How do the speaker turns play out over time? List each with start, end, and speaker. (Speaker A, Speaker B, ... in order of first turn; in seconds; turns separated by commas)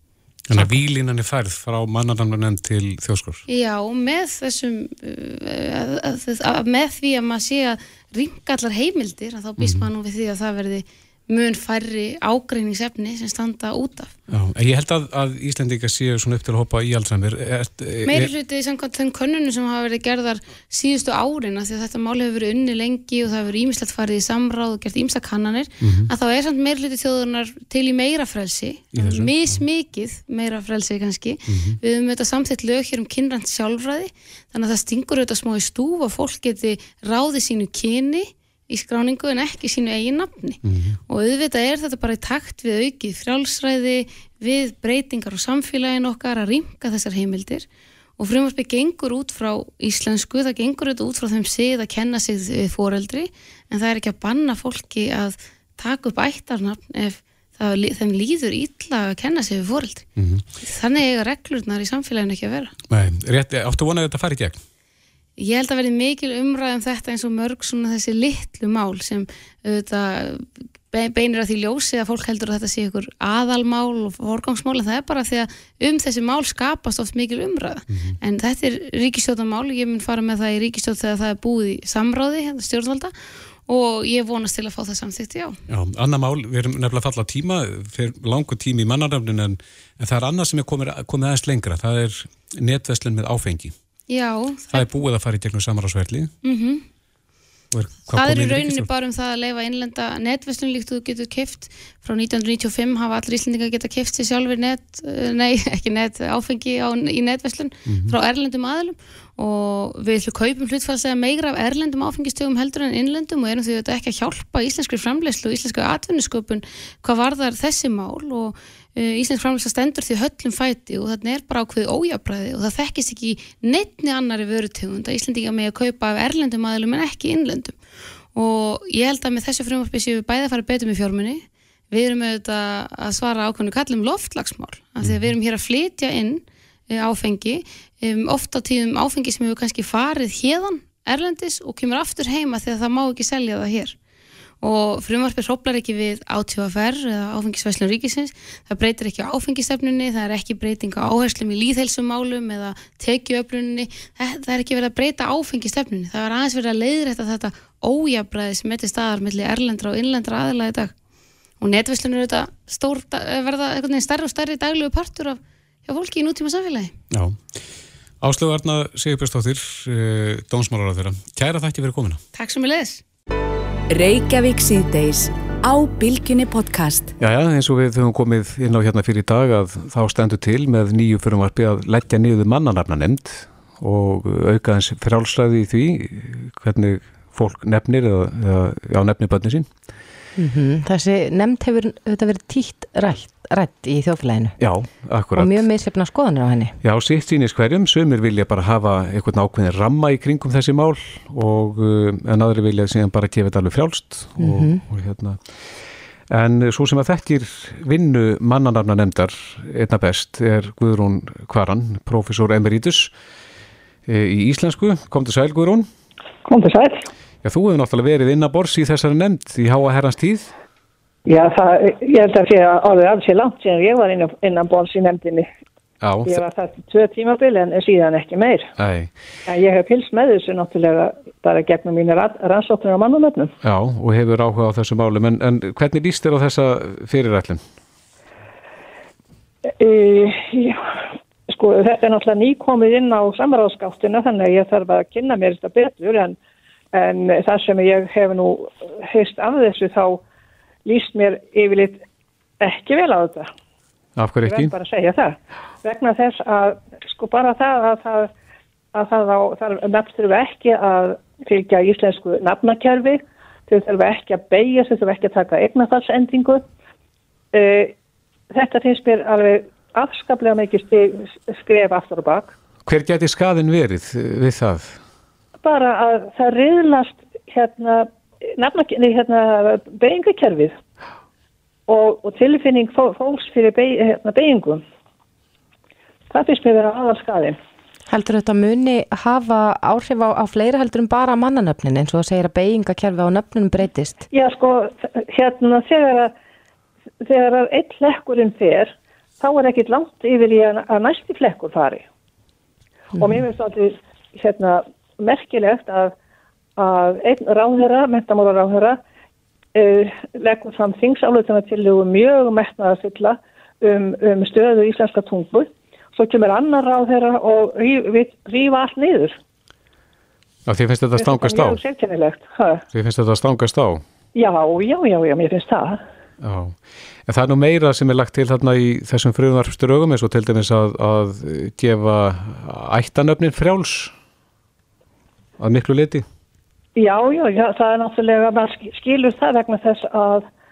Speaker A: 0.5-3.4, Speaker B: 0.6-0.8, Speaker C: 3.5-14.1, Speaker A: 9.6-9.9, Speaker A: 14.3-18.3, Speaker C: 18.1-47.7, Speaker A: 25.8-26.1, Speaker A: 28.9-29.6, Speaker A: 31.5-31.8, Speaker A: 40.6-41.0, Speaker C: 48.2-60.1, Speaker A: 60.2-60.5, Speaker C: 60.6-62.7, Speaker A: 62.9-64.6, Speaker C: 65.4-83.1, Speaker A: 77.9-78.2, Speaker C: 83.7-85.6, Speaker A: 85.7-93.7, Speaker C: 94.1-94.9, Speaker A: 94.7-96.3, Speaker C: 96.4-96.8, Speaker A: 97.7-98.9, Speaker C: 98.1-127.8, Speaker A: 107.9-108.2, Speaker C: 128.3-143.9, Speaker A: 135.0-135.3, Speaker C: 144.6-160.9, Speaker C: 161.6-166.9, Speaker A: 167.1-167.4, Speaker A: 168.2-172.2, Speaker C: 172.3-173.0, Speaker D: 173.9-177.1, Speaker A: 177.2-189.7, Speaker B: 190.4-194.6, Speaker A: 194.6-195.7, Speaker B: 195.4-196.8, Speaker A: 196.8-205.4, Speaker B: 204.4-204.8, Speaker A: 206.3-213.1, Speaker A: 214.1-215.9, Speaker E: 216.4-217.1, Speaker A: 217.4-220.5, Speaker E: 221.3-225.5, Speaker A: 226.0-226.4, Speaker E: 226.3-228.7, Speaker A: 228.8-229.1, Speaker E: 229.5-233.5, Speaker A: 233.6-237.6, Speaker E: 239.8-240.9, Speaker E: 241.5-246.4, Speaker E: 246.9-250.2, Speaker E: 250.9-252.0, Speaker E: 252.6-253.5, Speaker A: 254.2-254.8, Speaker E: 254.5-258.3, Speaker E: 258.9-266.6, Speaker E: 267.5-267.9, Speaker E: 268.5-272.5, Speaker A: 272.9-275.0, Speaker E: 275.6-280.8, Speaker E: 281.9-284.8, Speaker E: 286.3-287.6, Speaker B: 288.1-294.2, Speaker E: 294.3-296.3, Speaker E: 297.2-302.1, Speaker B: 303.1-303.4, Speaker E: 303.2-306.1, Speaker E: 306.8-309.0, Speaker E: 309.8-319.4, Speaker A: 320.7-321.8, Speaker E: 321.2-322.8, Speaker A: 322.9-324.0, Speaker E: 324.4-326.0, Speaker A: 326.4-334.1, Speaker A: 335.6-336.2, Speaker E: 337.0-340.5